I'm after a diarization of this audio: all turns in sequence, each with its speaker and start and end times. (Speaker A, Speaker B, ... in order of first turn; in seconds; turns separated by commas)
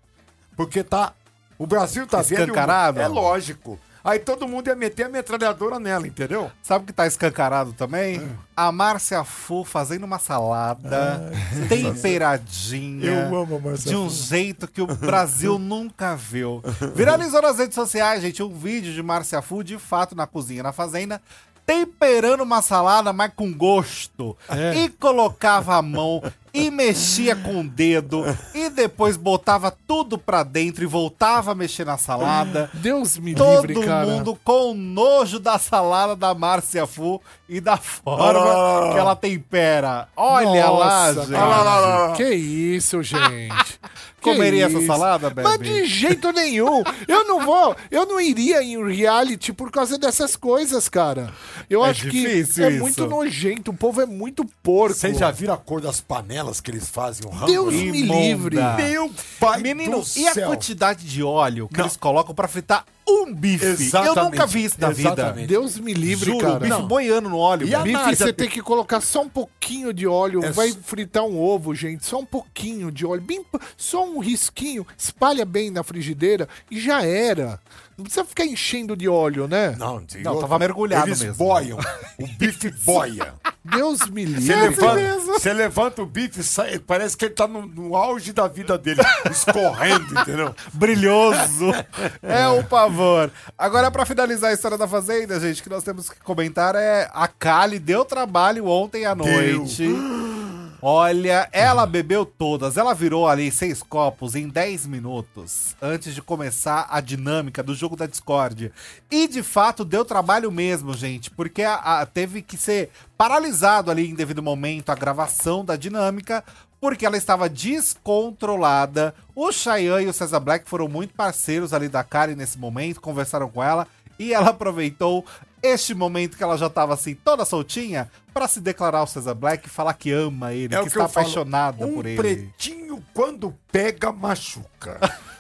Speaker A: 0.6-6.5, Speaker B: 2.1-3.3, Speaker B: 6.6-32.8, Speaker A: 10.9-12.2, Speaker A: 13.0-14.3, Speaker C: 24.5-24.9, Speaker C: 32.7-34.3, Speaker B: 33.3-42.0, Speaker A: 38.2-39.1, Speaker C: 40.3-55.4, Speaker A: 41.3-42.2, Speaker B: 44.2-45.9, Speaker B: 51.8-53.2, Speaker A: 54.9-58.1, Speaker C: 57.4-58.9, Speaker B: 57.7-58.9, Speaker A: 58.7-60.7, Speaker B: 59.5-65.4, Speaker A: 63.6-65.6, Speaker C: 65.4-66.8, Speaker B: 66.1-68.0, Speaker A: 66.6-67.0, Speaker A: 67.6-68.5, Speaker C: 67.8-79.8, Speaker A: 70.4-70.8, Speaker A: 79.7-83.4, Speaker B: 80.2-81.7, Speaker C: 83.6-85.1, Speaker A: 84.4-90.7, Speaker B: 84.5-85.5, Speaker B: 90.7-100.0, Speaker A: 92.3-92.7, Speaker A: 99.2-100.5, Speaker B: 100.8-132.5, Speaker A: 130.7-135.1